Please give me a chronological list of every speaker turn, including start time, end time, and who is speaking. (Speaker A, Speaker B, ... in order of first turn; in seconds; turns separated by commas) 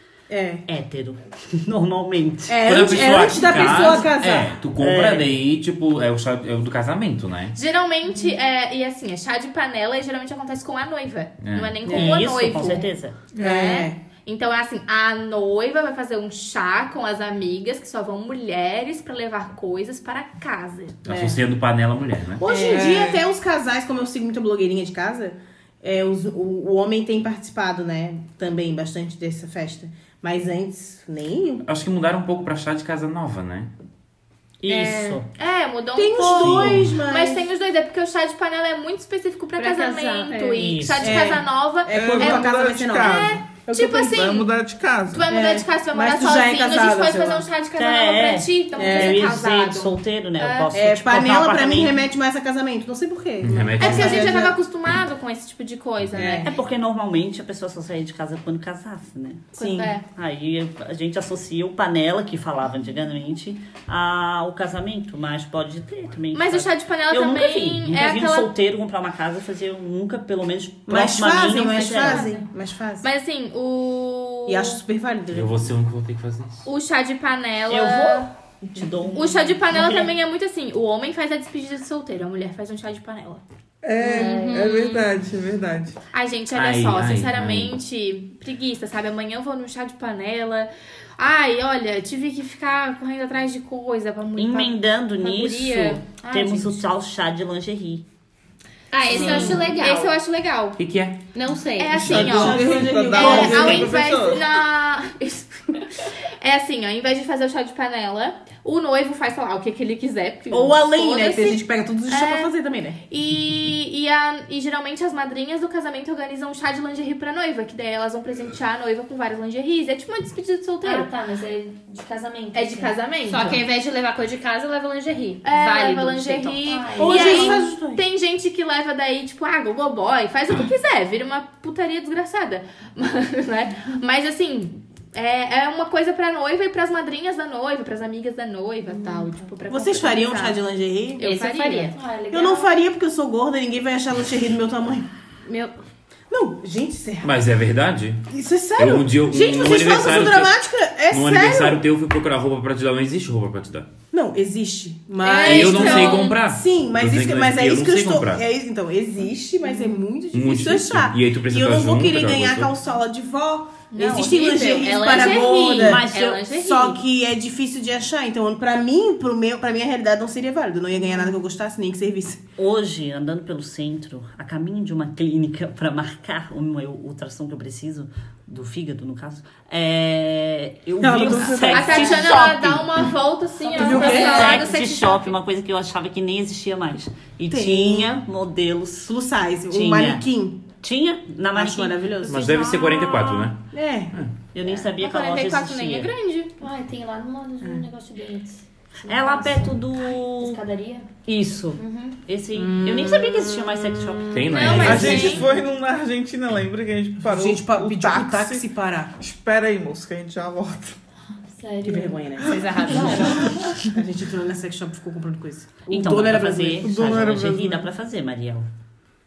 Speaker A: 0.3-0.7, Speaker B: 0.7-2.8, Speaker A: 2.5-4.6, Speaker C: 2.6-7.6, Speaker B: 3.3-4.0, Speaker B: 4.8-5.3, Speaker D: 7.5-21.0, Speaker C: 11.4-11.8, Speaker B: 11.9-13.2, Speaker A: 13.4-14.0, Speaker C: 21.1-22.4, Speaker A: 21.1-21.4, Speaker A: 22.4-31.6, Speaker E: 22.5-23.2, Speaker C: 31.6-33.7, Speaker B: 34.6-35.3, Speaker A: 34.7-35.2, Speaker D: 35.3-44.5, Speaker A: 36.0-37.5, Speaker C: 36.4-36.9, Speaker F: 39.6-40.6, Speaker G: 39.9-40.3, Speaker B: 40.6-41.3, Speaker A: 41.0-44.3, Speaker E: 41.9-43.5, Speaker E: 44.1-45.3, Speaker D: 45.1-50.7, Speaker A: 45.3-47.5, Speaker B: 47.8-52.0, Speaker A: 48.8-49.3, Speaker A: 50.7-54.6, Speaker C: 53.4-54.4, Speaker D: 53.7-56.6, Speaker A: 56.1-56.5, Speaker B: 56.4-59.5, Speaker A: 59.6-59.9, Speaker D: 59.6-60.1, Speaker B: 60.1-72.3, Speaker D: 66.3-68.5, Speaker A: 70.9-73.1, Speaker D: 71.6-72.5, Speaker D: 73.0-74.8, Speaker A: 74.5-75.7, Speaker C: 75.3-76.7, Speaker D: 76.7-78.3, Speaker B: 77.7-80.1, Speaker D: 79.1-83.4, Speaker E: 83.8-86.0, Speaker F: 84.0-84.9, Speaker G: 84.1-84.7, Speaker D: 86.1-96.8, Speaker C: 86.5-87.8, Speaker B: 94.4-98.0, Speaker F: 98.9-100.1, Speaker D: 99.1-100.8, Speaker G: 99.3-99.8, Speaker C: 100.8-101.2, Speaker F: 101.3-102.2, Speaker D: 101.8-112.5, Speaker A: 102.1-104.0, Speaker E: 102.1-104.5, Speaker A: 110.5-113.0, Speaker D: 113.1-121.1, Speaker G: 120.8-123.0, Speaker D: 122.5-123.6, Speaker F: 123.3-126.8, Speaker D: 125.4-140.6, Speaker G: 126.6-127.5, Speaker A: 127.0-128.0, Speaker G: 138.9-139.5, Speaker A: 139.7-145.1, Speaker D: 141.2-142.0, Speaker G: 141.9-142.7, Speaker A: 146.3-147.4, Speaker C: 147.2-148.2, Speaker A: 148.3-151.8, Speaker C: 148.8-150.6, Speaker C: 151.1-153.9, Speaker A: 154.1-172.4, Speaker G: 155.2-155.5, Speaker D: 155.3-156.4, Speaker C: 155.5-158.4, Speaker C: 160.3-162.7, Speaker D: 163.9-167.0, Speaker B: 166.0-166.4, Speaker B: 172.6-183.1, Speaker A: 181.0-182.5, Speaker D: 181.7-185.3, Speaker G: 183.6-184.3, Speaker A: 183.8-184.6, Speaker B: 183.8-189.1, Speaker A: 187.5-188.2, Speaker A: 189.0-190.7, Speaker B: 189.7-190.3, Speaker B: 190.8-192.3, Speaker A: 191.5-192.6, Speaker C: 192.2-194.3, Speaker D: 192.5-193.3, Speaker A: 193.7-194.2, Speaker B: 194.5-196.1, Speaker D: 195.0-196.5, Speaker G: 196.6-201.1, Speaker B: 199.1-200.6, Speaker B: 201.3-205.4, Speaker G: 201.8-202.2, Speaker A: 202.6-203.4, Speaker C: 204.3-205.4, Speaker D: 204.5-205.5, Speaker E: 204.8-208.7, Speaker A: 207.2-209.1, Speaker E: 209.2-211.0, Speaker G: 211.5-213.8, Speaker A: 211.8-216.9, Speaker F: 212.5-213.5, Speaker B: 215.9-218.7, Speaker E: 216.8-217.9